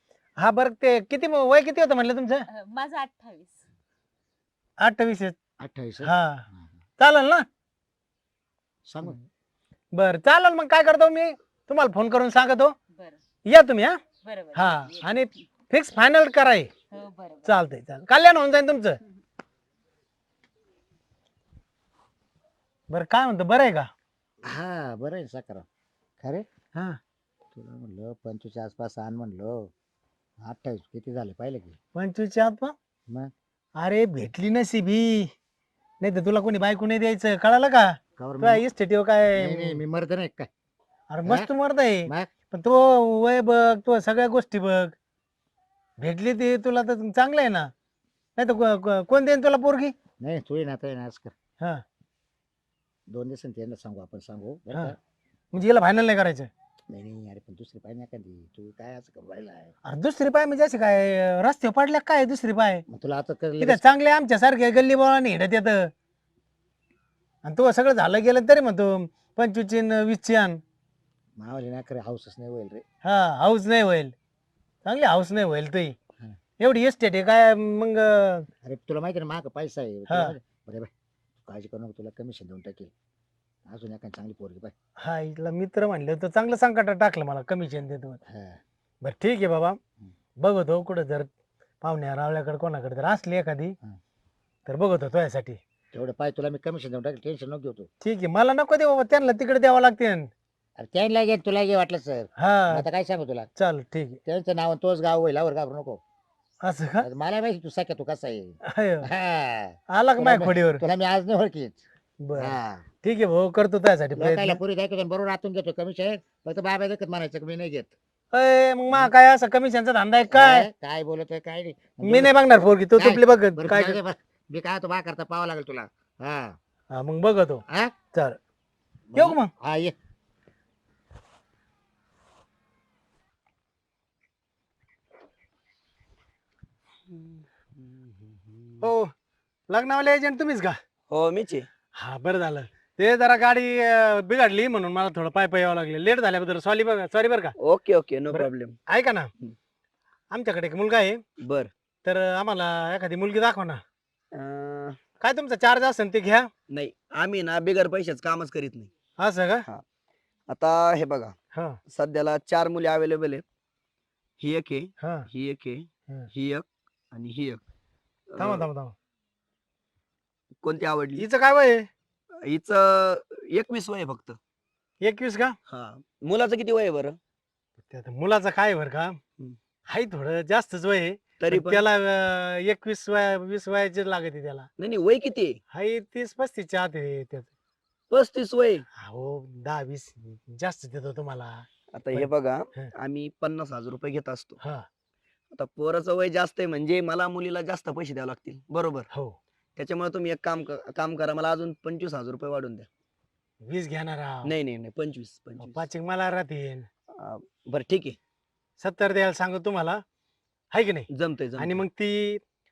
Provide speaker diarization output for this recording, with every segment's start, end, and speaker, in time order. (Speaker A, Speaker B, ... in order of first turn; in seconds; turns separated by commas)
Speaker A: 0.4-2.4, Speaker B: 2.5-3.5, Speaker A: 4.8-5.4, Speaker C: 5.6-6.7, Speaker A: 6.0-6.4, Speaker A: 7.0-7.4, Speaker C: 8.9-9.2, Speaker A: 9.9-12.7, Speaker A: 13.4-14.0, Speaker B: 14.2-15.0, Speaker A: 14.5-16.7, Speaker B: 16.9-17.5, Speaker A: 17.4-19.0, Speaker A: 22.9-23.9, Speaker C: 24.4-25.6, Speaker C: 26.2-26.5, Speaker C: 27.5-29.7, Speaker C: 30.4-31.8, Speaker A: 31.9-32.7, Speaker A: 33.8-35.3, Speaker A: 36.0-39.8, Speaker C: 38.2-38.7, Speaker C: 39.3-40.5, Speaker A: 41.1-44.9, Speaker A: 46.0-47.7, Speaker A: 48.4-49.9, Speaker C: 50.2-51.3, Speaker C: 53.1-55.0, Speaker A: 55.5-56.5, Speaker C: 56.9-59.7, Speaker A: 59.8-62.8, Speaker C: 62.9-63.8, Speaker A: 63.6-65.9, Speaker A: 67.4-70.6, Speaker C: 71.4-72.8, Speaker A: 73.0-74.1, Speaker A: 74.8-75.9, Speaker A: 76.6-78.5, Speaker C: 78.6-80.9, Speaker A: 80.1-80.3, Speaker C: 81.5-82.9, Speaker C: 83.7-84.7, Speaker A: 85.0-88.2, Speaker C: 88.3-88.6, Speaker A: 89.0-89.8, Speaker A: 90.4-91.3, Speaker A: 91.8-93.7, Speaker A: 94.7-95.6, Speaker C: 95.9-97.9, Speaker A: 98.0-100.3, Speaker C: 100.8-103.5, Speaker A: 102.4-102.8, Speaker A: 103.5-104.2, Speaker C: 104.2-106.0, Speaker A: 106.6-107.0, Speaker C: 107.0-111.8, Speaker A: 108.6-109.1, Speaker A: 109.9-110.8, Speaker A: 112.2-114.6, Speaker C: 112.4-112.8, Speaker C: 114.1-117.9, Speaker A: 118.3-120.7, Speaker C: 120.3-122.3, Speaker A: 122.0-124.0, Speaker C: 123.0-126.6, Speaker A: 126.9-128.4, Speaker C: 129.1-129.9, Speaker A: 129.1-129.5, Speaker D: 138.2-138.8, Speaker A: 138.8-139.1, Speaker A: 139.7-140.8, Speaker D: 141.1-141.7, Speaker A: 141.9-147.5, Speaker D: 147.6-148.8, Speaker A: 148.3-149.3, Speaker A: 150.3-151.2, Speaker D: 151.4-151.7, Speaker A: 152.0-153.8, Speaker D: 154.3-155.0, Speaker A: 155.2-156.5, Speaker D: 156.7-158.9, Speaker A: 159.2-159.7, Speaker D: 160.5-161.3, Speaker A: 161.5-161.8, Speaker D: 161.9-163.4, Speaker D: 164.4-167.6, Speaker A: 165.0-165.3, Speaker D: 168.3-168.7, Speaker A: 168.4-168.9, Speaker D: 170.6-171.3, Speaker A: 171.1-171.9, Speaker D: 172.4-174.4, Speaker A: 175.0-175.6, Speaker D: 175.7-177.2, Speaker A: 177.9-179.2, Speaker A: 179.9-184.7, Speaker D: 181.4-181.8, Speaker D: 184.8-185.6, Speaker A: 185.7-187.5, Speaker D: 188.1-188.8, Speaker A: 189.0-192.9, Speaker D: 191.9-194.6, Speaker A: 194.6-194.8, Speaker D: 195.5-199.1, Speaker A: 199.1-199.4, Speaker D: 199.8-202.9, Speaker A: 203.6-204.5, Speaker D: 204.4-205.9, Speaker A: 205.6-206.9, Speaker D: 207.2-208.2, Speaker A: 208.8-210.0, Speaker A: 210.7-212.4, Speaker D: 211.1-211.8